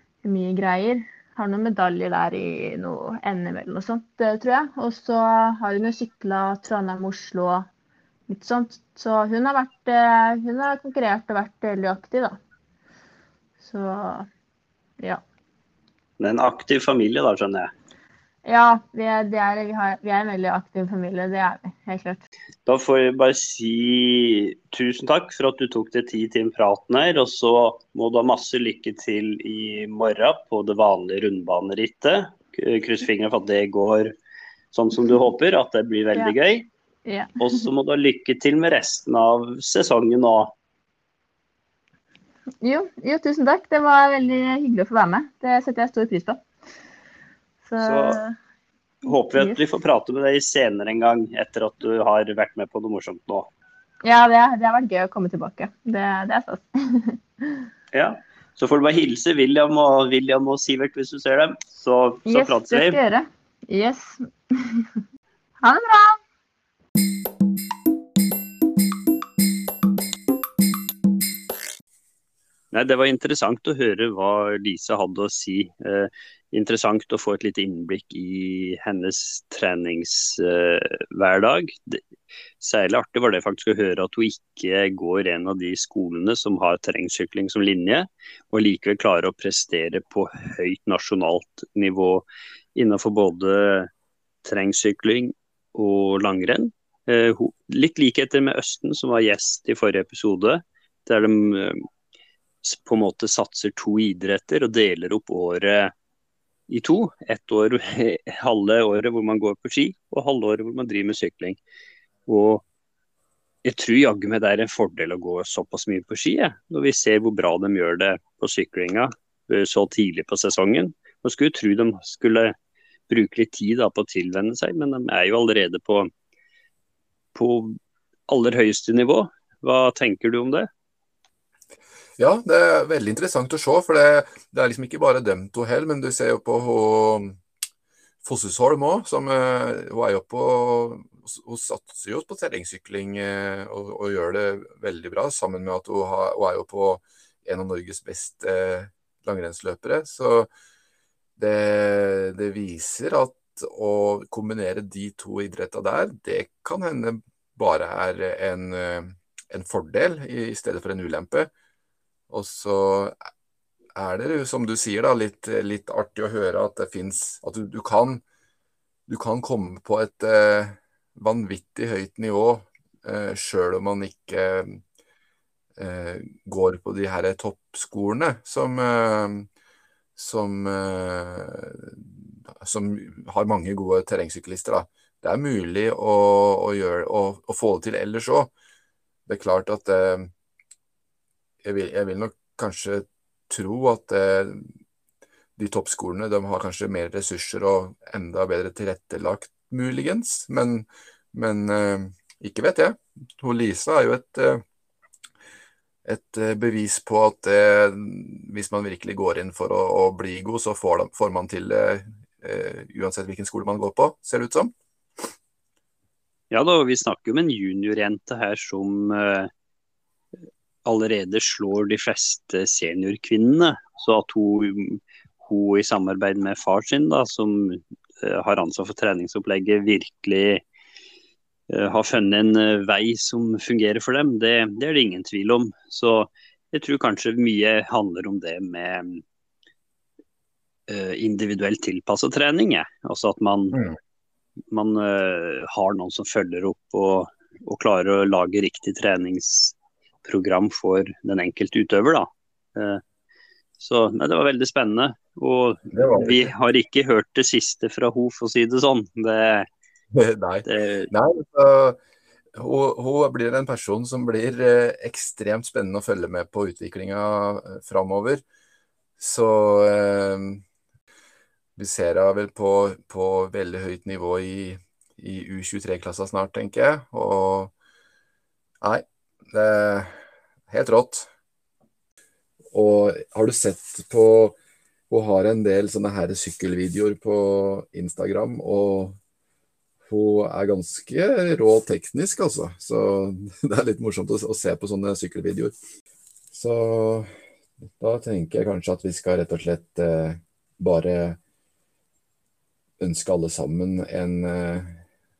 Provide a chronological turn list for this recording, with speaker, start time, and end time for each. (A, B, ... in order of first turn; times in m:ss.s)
0:00.2-0:07.6 A
0:08.3-0:12.3 A
0:13.6-0:14.3 A
0:16.2-0:17.7 B
0:18.4-0:22.2 A
0:22.6-0:34.1 B
0:34.7-0:36.7 B
0:37.0-0:37.6 A
0:37.4-0:40.5 B
0:42.6-0:46.4 A
0:47.6-0:48.4 A
0:47.8-0:48.2 B
0:49.0-0:53.5 B
0:49.1-0:49.6 A
0:54.0-0:57.6 A
0:57.9-1:03.0 B
1:02.2-1:04.9 A
1:05.6-1:06.2 A
1:12.7-1:22.0 B
1:22.6-1:33.9 B
1:34.4-1:41.9 B
1:42.6-1:45.9 B
1:46.7-1:51.6 B
1:52.2-1:52.6 B
1:53.6-2:02.5 B
2:03.1-2:06.1 B
2:07.3-2:10.7 B
2:12.2-2:17.4 C
2:18.2-2:30.5 C
2:31.4-2:41.5 C
2:42.3-2:43.1 C
2:44.0-2:48.2 C
2:49.1-2:54.8 C
2:55.8-2:59.5 C
3:00.2-3:08.5 C
3:09.3-3:10.3 C
3:11.6-3:14.7 C
3:15.6-3:24.6 C
3:26.0-3:34.7 C
3:36.5-3:39.5 B
3:40.8-3:50.6 B
3:51.7-3:59.2 B
4:00.9-4:03.8 B
4:04.7-4:13.0 B
4:13.8-4:19.7 B
4:15.9-4:16.5 C
4:20.1-4:22.0 C
4:20.6-4:21.1 B
4:22.5-4:28.4 C
4:29.2-4:30.6 C
4:31.8-4:37.7 C
4:38.8-4:40.2 C
4:40.7-4:41.3 C
4:42.7-4:44.6 C
4:45.1-4:49.2 C
4:50.0-4:55.7 C
4:56.5-4:57.3 C
4:58.0-5:01.4 C
5:03.0-5:05.0 C